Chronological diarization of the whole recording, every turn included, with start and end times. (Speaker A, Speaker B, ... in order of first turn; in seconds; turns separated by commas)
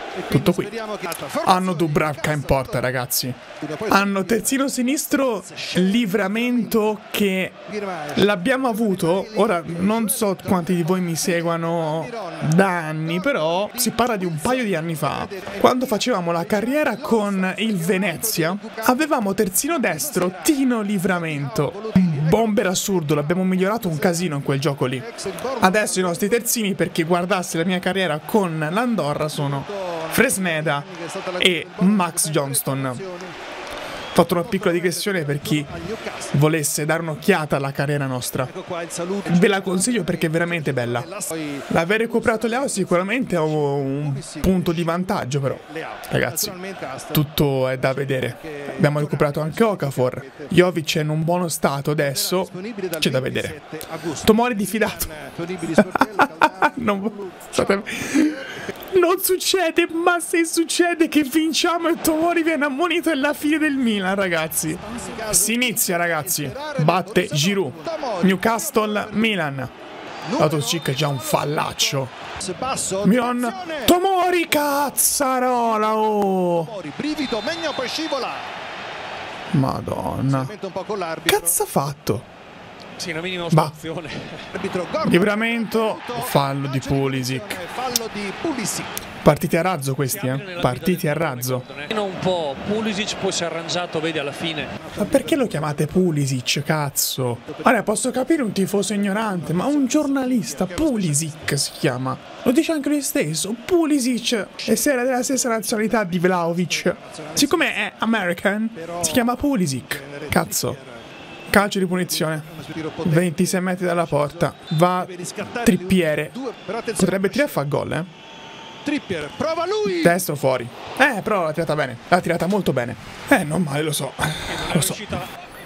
Speaker A: 0.1-2.8, Speaker B: 0.3-0.7, Speaker B: 1.4-7.6, Speaker A: 3.5-4.5, Speaker A: 5.4-6.9, Speaker A: 7.7-19.1, Speaker B: 8.2-25.1, Speaker A: 19.8-20.6, Speaker A: 21.1-24.4, Speaker A: 25.0-26.4, Speaker B: 25.6-33.0, Speaker A: 29.4-33.3, Speaker B: 34.1-35.7, Speaker A: 34.4-36.4, Speaker B: 36.3-38.5, Speaker A: 38.5-47.2, Speaker B: 39.3-41.1, Speaker B: 41.7-46.6, Speaker B: 47.1-53.6, Speaker A: 48.0-50.5, Speaker A: 52.0-58.6, Speaker B: 54.2-55.1, Speaker B: 55.8-69.7, Speaker A: 64.8-69.4, Speaker A: 70.3-74.0, Speaker B: 70.4-72.1, Speaker B: 73.0-76.7, Speaker A: 75.8-78.5, Speaker B: 79.5-80.5, Speaker A: 80.3-81.6, Speaker B: 81.3-82.3, Speaker C: 83.0-84.5, Speaker B: 83.5-83.8, Speaker A: 84.5-88.9, Speaker B: 85.0-87.6, Speaker B: 89.2-91.7, Speaker C: 90.1-94.7, Speaker A: 94.8-96.1, Speaker B: 95.0-110.8, Speaker A: 97.4-98.1, Speaker A: 99.1-101.3, Speaker A: 105.4-107.7, Speaker A: 108.8-109.4, Speaker A: 109.9-111.0, Speaker B: 111.5-112.5, Speaker A: 111.7-117.7, Speaker B: 113.0-116.4, Speaker B: 117.0-118.1, Speaker A: 118.8-120.2, Speaker B: 120.0-125.2, Speaker C: 124.5-125.3